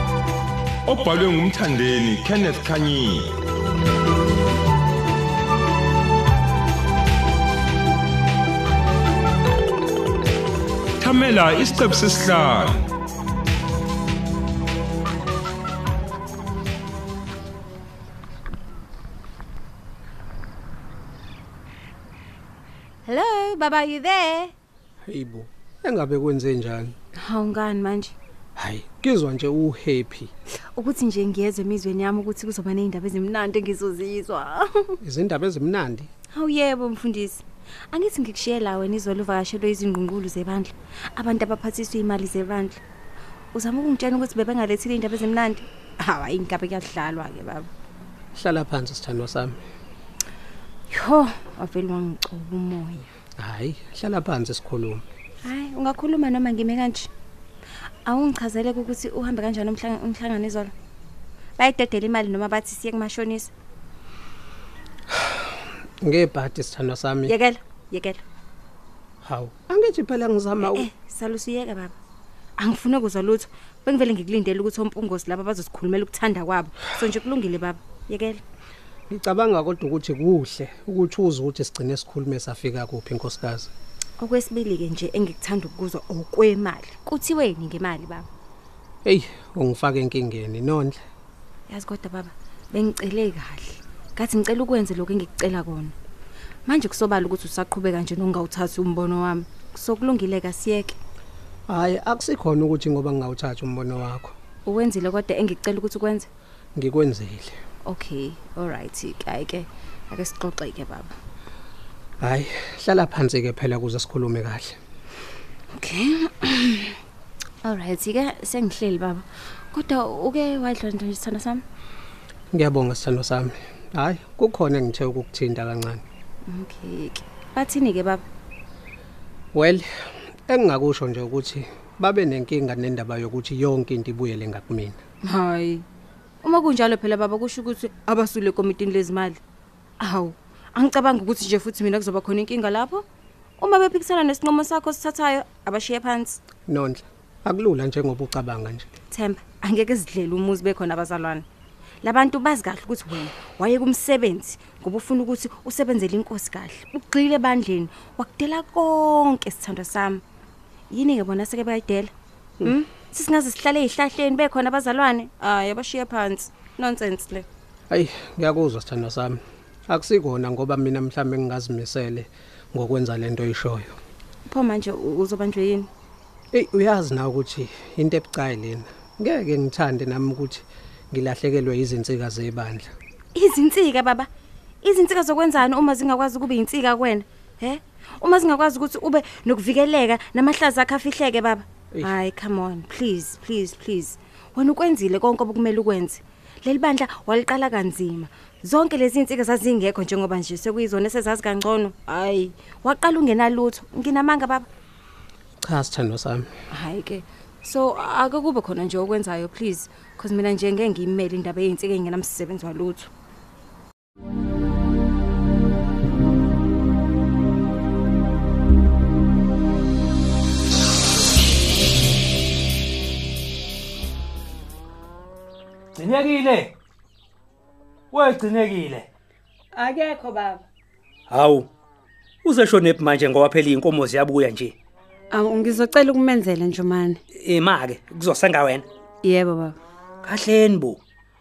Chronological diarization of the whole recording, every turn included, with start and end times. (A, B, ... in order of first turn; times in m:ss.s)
0:00.8-0:03.3 A
0:11.0-0:12.8 A
0:23.0-0:24.5 B
0:25.1-0:26.9 C
0:27.2-0:28.1 B
0:28.6-0:30.3 C
0:30.7-0:34.9 B
0:35.0-0:36.1 C
0:36.3-0:42.8 B
0:43.5-0:47.7 B
0:48.3-0:49.6 C
0:50.9-0:53.1 B
0:53.4-0:55.0 C
0:55.4-0:57.1 B
0:58.0-1:00.7 B
1:01.6-1:03.5 B
1:05.1-1:05.5 C
1:06.0-1:07.3 C
1:07.2-1:08.2 B
1:09.2-1:10.9 C
1:10.6-1:11.9 B
1:12.6-1:18.4 B
1:19.1-1:23.7 C
1:24.2-1:28.3 B
1:29.0-1:31.0 C
1:31.7-1:35.9 B
1:36.6-1:41.0 B
1:41.7-1:44.3 C
1:44.6-1:46.3 B
1:46.8-1:47.6 C
1:47.8-1:51.1 B
1:52.2-1:54.8 C
1:55.7-1:56.9 B
1:57.6-2:01.6 B
2:02.5-2:06.0 C
2:06.4-2:08.2 B
2:09.5-2:15.0 C
2:15.2-2:15.8 B
2:16.4-2:19.4 B
2:20.0-2:23.0 B
2:23.6-2:26.4 B
2:26.7-2:28.9 C
2:29.1-2:31.4 B
2:32.0-2:40.2 B
2:40.9-2:47.4 B
2:47.9-2:54.0 C
2:54.5-2:55.9 B
2:56.5-3:02.9 C
3:03.3-3:04.3 B
3:04.8-3:24.7 B
3:25.6-3:26.5 C
3:26.7-3:33.1 B
3:45.9-3:46.7 D
3:48.1-3:49.1 D
3:49.8-3:50.6 E
3:51.3-3:51.7 D
3:52.4-3:54.7 D
3:55.3-3:57.2 E
3:57.4-3:58.8 D
3:59.2-3:59.7 E
4:00.2-4:01.0 D